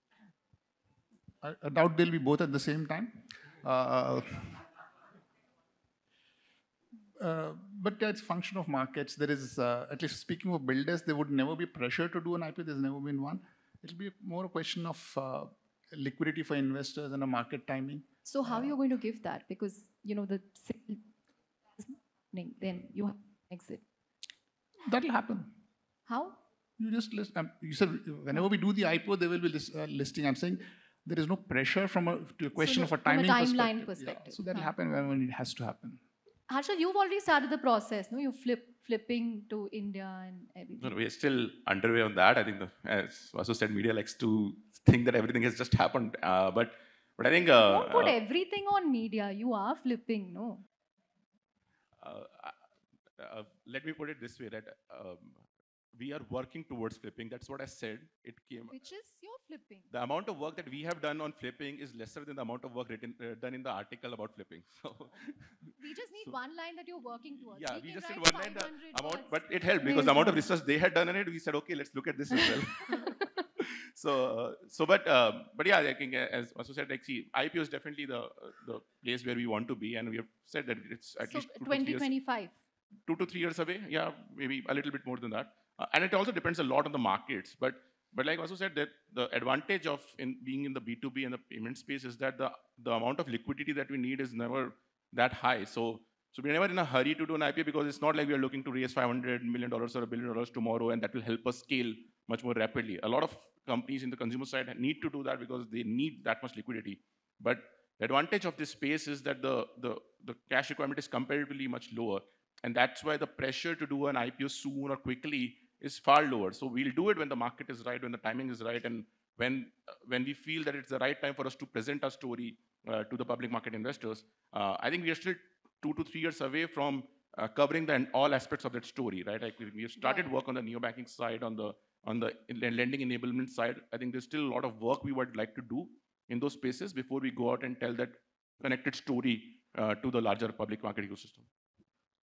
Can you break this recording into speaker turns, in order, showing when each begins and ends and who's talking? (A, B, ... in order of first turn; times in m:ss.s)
0:01.4-0:04.6 A
0:07.2-0:18.7 A
0:18.2-0:21.0 B
0:21.8-0:23.8 B
0:24.9-0:25.5 A
0:26.1-0:26.4 B
0:26.8-0:36.0 A
0:32.6-0:34.7 B
0:36.5-0:40.9 B
0:40.8-0:48.2 C
0:47.5-0:50.6 B
0:52.0-0:52.6 C
0:53.2-0:55.4 C
0:56.0-0:58.8 C
0:58.7-0:59.9 B
0:59.9-1:05.7 C
1:05.8-1:10.5 B
1:07.5-1:22.1 C
1:21.2-1:22.5 B
1:23.1-2:21.5 C
2:10.0-2:10.3 B